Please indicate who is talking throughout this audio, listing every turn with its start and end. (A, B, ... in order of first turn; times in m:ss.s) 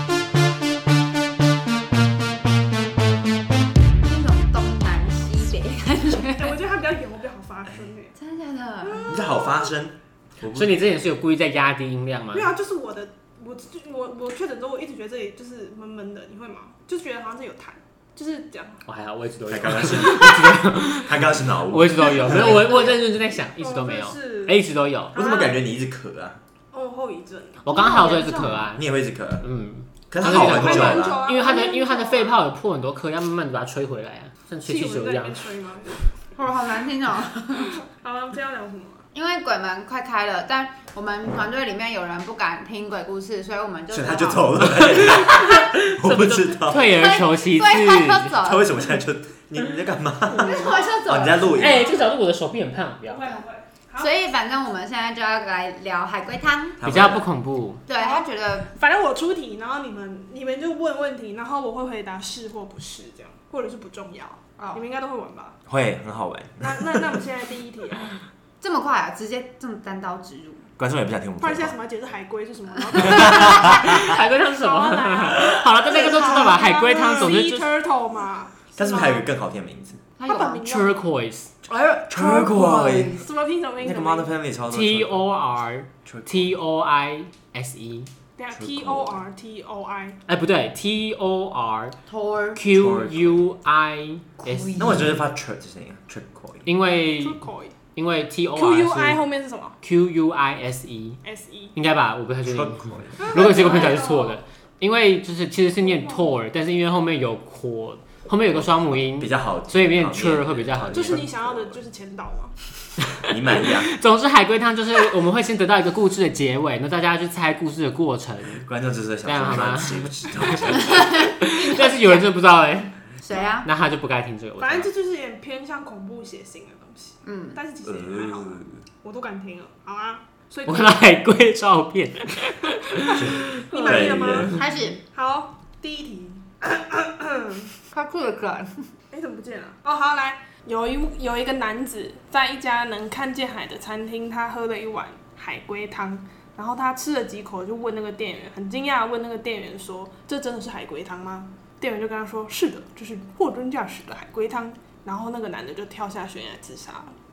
0:04.0-0:06.6 A
0:06.3-0:08.1 B
0:08.2-0:09.4 A
0:08.8-0:09.7 B
0:09.1-0:10.8 C
0:10.5-0:12.5 D
0:12.3-0:18.8 B
0:18.9-0:25.2 D
0:19.5-0:22.8 C
0:22.2-0:23.0 B
0:23.6-0:24.6 B
0:25.1-0:25.6 B
0:25.1-0:26.4 C
0:26.7-0:27.7 B
0:27.6-0:28.8 D
0:27.7-0:28.7 A
0:28.8-0:29.5 C
0:29.4-0:35.4 D
0:30.1-0:31.2 C
0:30.2-0:32.4 B
0:34.7-0:36.0 B
0:36.4-0:37.8 A
0:37.7-0:39.0 B
0:39.1-0:44.8 A
0:43.9-0:46.9 C
0:44.8-0:48.3 D
0:46.8-0:48.9 A
0:48.4-0:51.9 C
0:50.3-0:52.1 B
0:50.3-0:51.8 A
0:51.6-0:53.4 D
0:53.0-0:54.1 B
0:54.0-0:56.8 A
0:56.8-0:57.3 C
0:56.8-0:57.8 D
0:57.9-0:58.7 A
0:58.0-1:05.6 B
1:05.7-1:07.2 C
1:06.6-1:08.2 B
1:08.6-1:10.7 A
1:10.8-1:11.7 C
1:11.4-1:19.3 B
1:12.9-1:13.7 A
1:13.0-1:14.2 C
1:13.7-1:17.7 D
1:18.8-1:20.0 C
1:20.2-1:20.7 A
1:20.2-1:21.0 B
1:20.6-1:21.5 D
1:21.7-1:23.3 A
1:22.1-1:23.2 C
1:23.2-1:24.3 B
1:23.8-1:25.2 C
1:24.7-1:28.1 D
1:26.0-1:26.5 C
1:28.4-1:30.2 B
1:28.5-1:29.2 C
1:30.3-1:32.0 D
1:32.1-1:32.6 A
1:32.6-1:35.1 D
1:32.7-1:33.4 C
1:34.4-1:35.1 A
1:34.8-1:36.7 C
1:36.7-1:37.4 D
1:37.2-1:37.8 B
1:38.0-1:39.2 D
1:38.6-1:39.8 B
1:39.8-1:41.2 D
1:41.2-1:41.7 B
1:41.8-1:51.3 D
1:42.5-1:43.4 C
1:43.2-1:44.4 B
1:45.8-1:46.4 B
1:48.9-1:51.8 C
1:50.9-1:52.5 B
1:53.2-1:58.7 D
1:53.3-1:53.9 C
1:58.6-2:01.3 C
1:59.2-2:02.9 D
2:00.8-2:02.3 A
2:03.2-2:03.7 A
2:03.6-2:04.9 D
2:04.6-2:11.0 B
2:07.2-2:07.6 A
2:07.8-2:08.7 C
2:10.7-2:13.7 D
2:13.2-2:17.8 B
2:13.2-2:14.6 C
2:14.5-2:15.0 A
2:17.9-2:18.9 A
2:19.1-2:37.2 B